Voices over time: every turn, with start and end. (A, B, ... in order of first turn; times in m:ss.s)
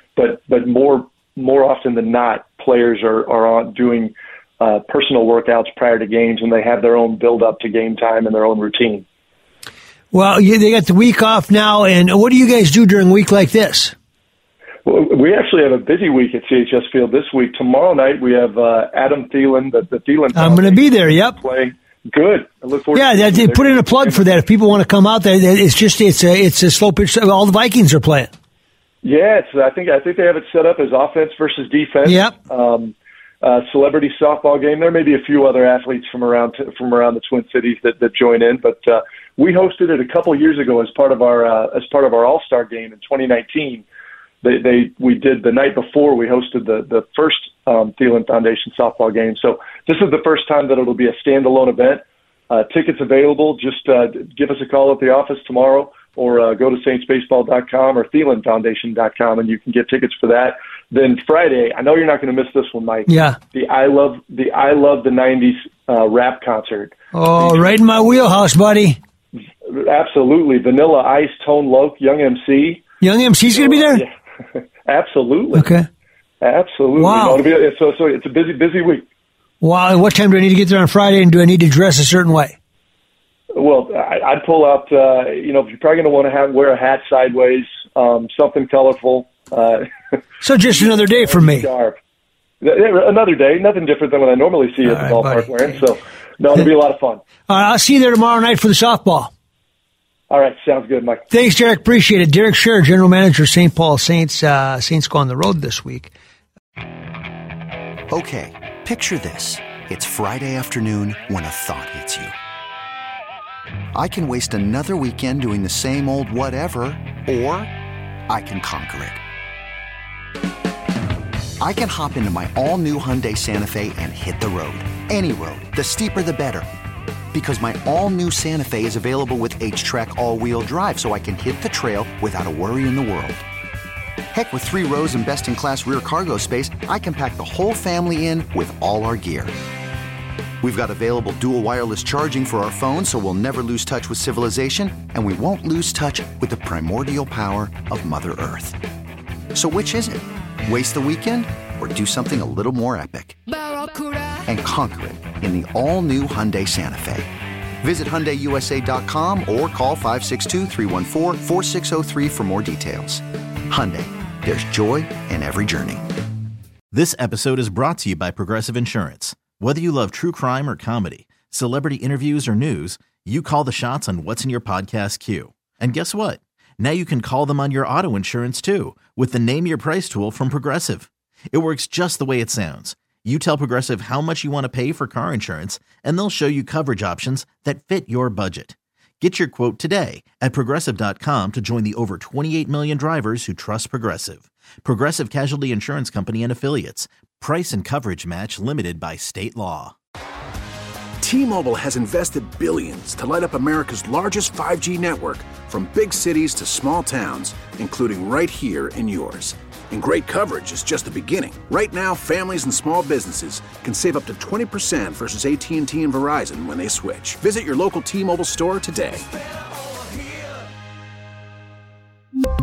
0:00.2-0:09.0 A
0:10.1-0:14.0 B
0:14.8-0:24.2 A
0:20.3-0:21.4 B
0:22.9-0:28.3 B
0:29.0-0:43.8 A
0:32.0-0:32.4 B
0:44.4-1:07.7 A
1:03.1-1:03.4 B
1:07.1-1:09.0 B
1:09.6-1:12.8 A
1:13.0-1:14.0 B
1:13.5-1:15.7 A
1:15.5-1:15.9 B
1:16.4-1:19.0 A
1:17.0-1:17.4 B
1:19.6-1:22.6 B
1:23.5-1:32.0 A
1:30.4-1:31.7 B
1:32.6-1:37.2 A
1:34.8-1:35.8 B
1:37.5-1:39.3 B
1:40.3-1:41.3 A
1:41.3-1:46.1 B
1:48.1-1:52.3 C
1:54.0-1:57.7 C
1:58.3-1:59.2 C
2:01.6-2:06.7 C
2:07.3-2:13.4 C
2:14.3-2:19.5 C
2:20.6-2:28.8 C
2:29.5-2:33.4 C
2:34.5-2:37.3 C
2:37.8-2:46.0 C
2:46.9-3:19.9 D
3:21.2-3:39.4 E